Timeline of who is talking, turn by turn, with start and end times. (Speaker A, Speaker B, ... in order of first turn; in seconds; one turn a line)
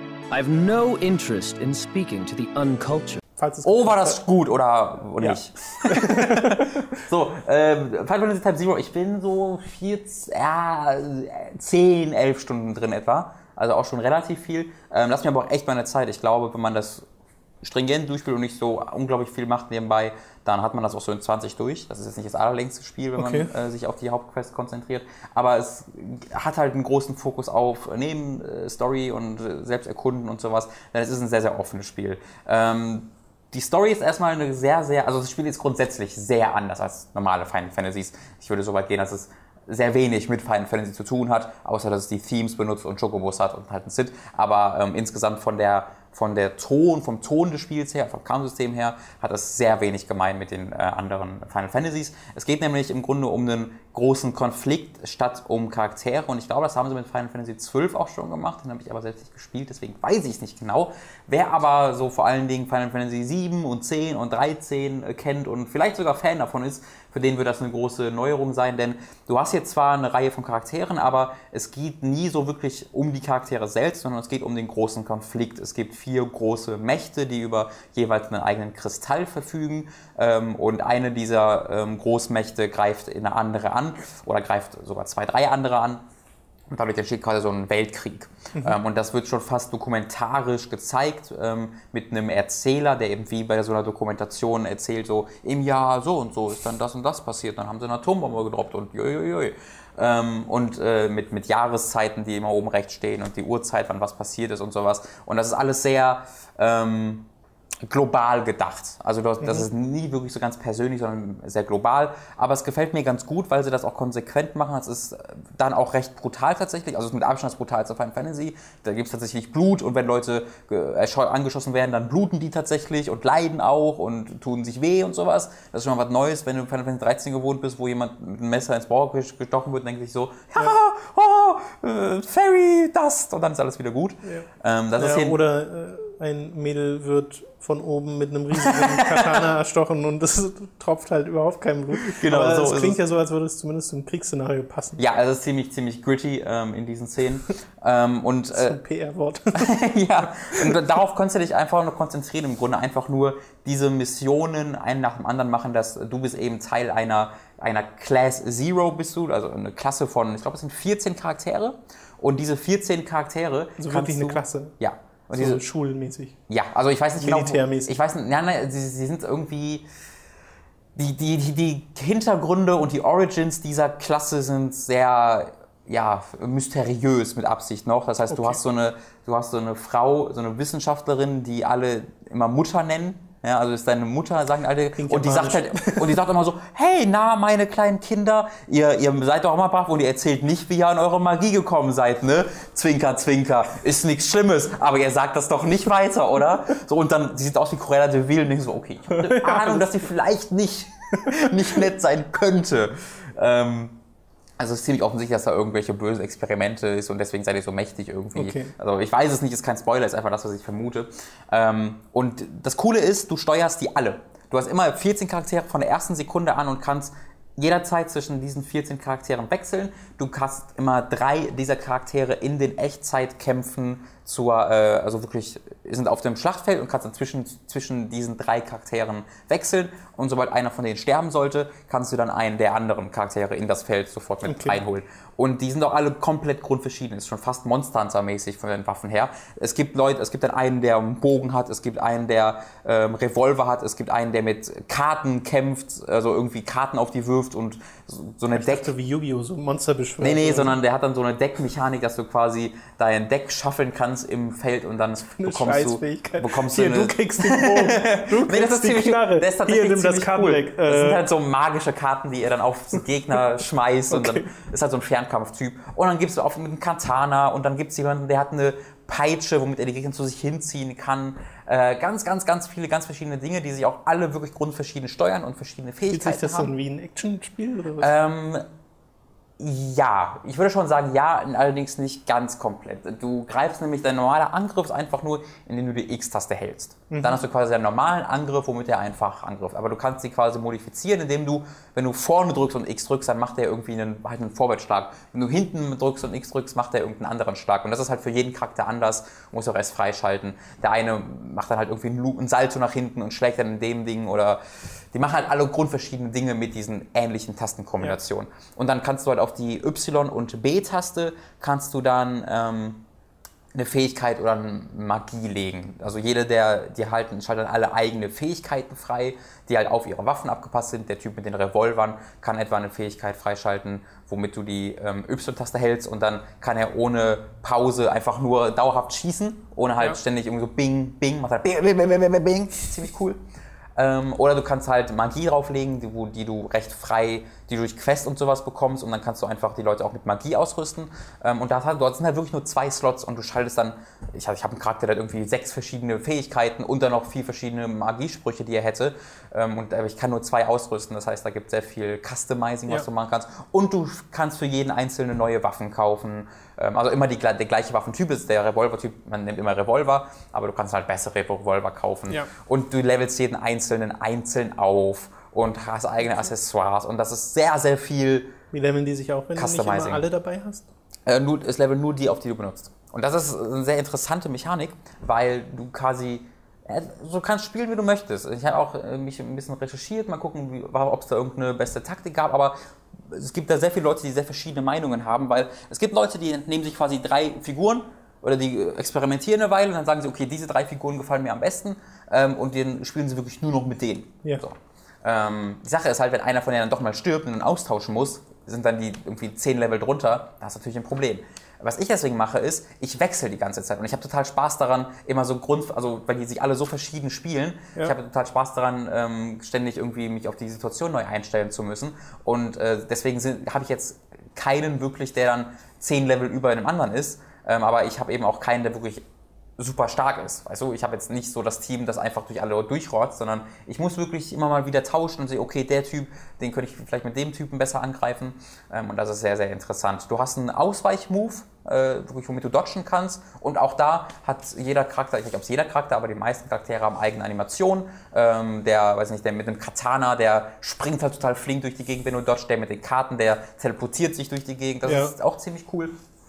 Speaker A: 0.3-3.2
Speaker B: 3.4-4.2
Speaker C: 3.6-17.1
Speaker B: 5.2-6.7
Speaker C: 17.6-86.0
Speaker B: 23.2-23.5
Speaker C: 86.7-107.3
Speaker C: 107.8-135.4
Speaker B: 109.4-109.7
Speaker B: 135.0-145.0
Speaker C: 138.6-139.5
Speaker C: 142.0-143.0
Speaker C: 145.0-148.8
Speaker B: 148.5-149.8
Speaker C: 149.5-165.6
Speaker B: 150.5-150.8
Speaker B: 163.8-164.7
Speaker B: 165.4-166.3
Speaker C: 166.5-169.8
Speaker B: 167.2-167.9
Speaker C: 171.0-204.0
Speaker B: 178.3-178.6
Speaker B: 185.0-186.2
Speaker B: 199.3-199.8
Speaker C: 204.6-248.9
Speaker B: 208.3-208.7
Speaker B: 234.4-234.8
Speaker B: 248.6-250.7
Speaker C: 250.2-276.7
Speaker B: 255.3-261.3
Speaker B: 264.1-264.5
Speaker B: 276.1-278.1
Speaker C: 278.0-278.7
Speaker C: 279.6-313.0
Speaker B: 287.1-287.4
Speaker C: 313.7-333.4
Speaker C: 334.0-368.5
Speaker B: 368.7-370.9
Speaker C: 369.6-370.2
Speaker C: 371.3-419.2
Speaker C: 419.8-446.1
Speaker B: 445.1-445.3